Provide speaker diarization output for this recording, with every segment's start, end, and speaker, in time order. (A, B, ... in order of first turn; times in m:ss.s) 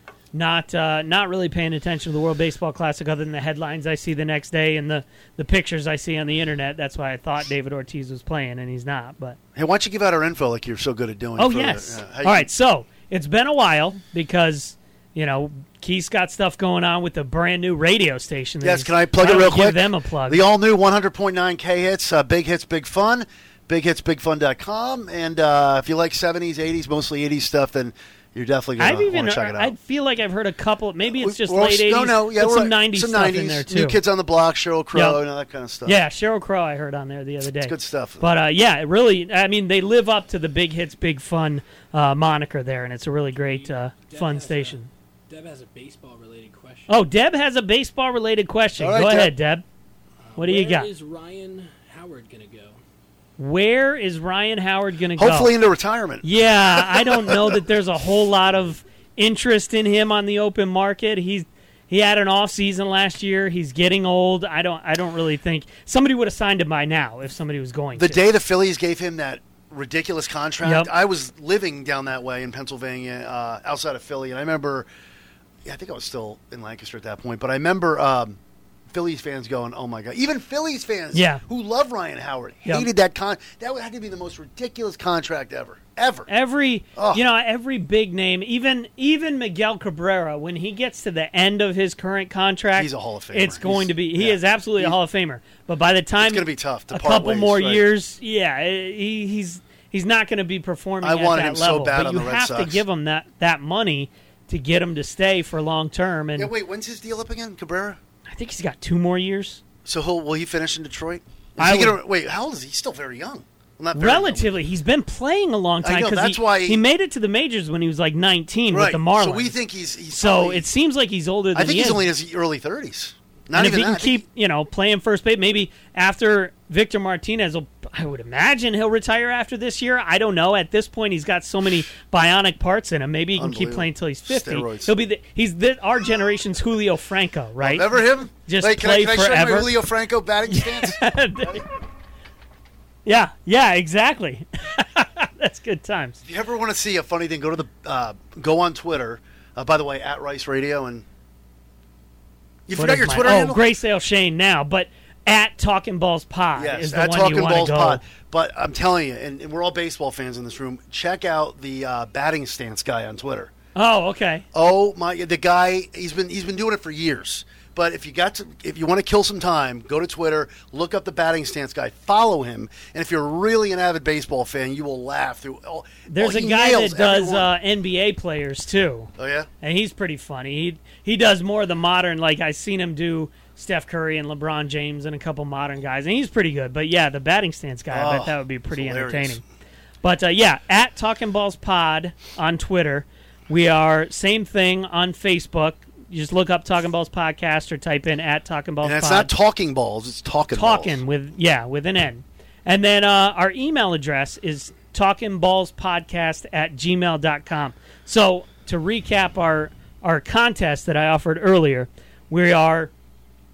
0:00.3-0:09.4 A
0:09.5-0:12.5 B
0:11.4-0:20.4 A
0:18.6-0:29.7 B
0:28.8-0:34.0 A
0:31.1-0:36.0 B
0:34.9-0:35.2 A
0:35.8-0:44.9 A
0:37.6-0:38.2 B
0:43.4-0:47.0 C
0:46.9-0:49.6 A
0:48.8-0:49.3 B
0:50.3-0:52.8 C
0:50.4-0:50.9 A
0:53.4-0:55.5 A
0:55.2-0:57.6 B
0:56.2-1:08.2 A
1:08.0-1:14.9 B
1:10.6-1:10.9 A
1:15.6-1:18.4 B
1:18.9-1:26.3 B
1:21.1-1:21.4 A
1:26.3-1:46.5 A
1:26.9-1:27.2 B
1:32.8-1:35.0 B
1:36.2-1:37.8 B
1:41.0-1:42.8 B
1:46.4-1:48.0 B
1:48.3-1:49.6 A
1:49.8-1:54.5 B
1:51.6-1:52.0 A
1:53.9-1:59.5 A
1:55.8-1:56.8 B
1:58.7-2:00.7 B
2:00.1-2:02.0 A
2:01.5-2:04.2 B
2:03.5-2:19.7 A
2:13.4-2:14.9 B
2:17.6-2:21.6 B
2:20.5-2:21.7 A
2:23.0-2:26.2 A
2:26.2-2:31.0 B
2:32.7-2:33.6 B
2:32.7-2:38.0 A
2:36.6-2:43.5 B
2:43.8-2:44.4 A
2:44.5-2:57.5 B
2:56.1-2:59.1 A
2:59.2-2:59.5 B
2:59.6-3:09.4 A
3:07.9-3:09.4 B
3:10.0-3:19.3 A
3:18.8-3:21.0 B
3:20.5-3:32.9 A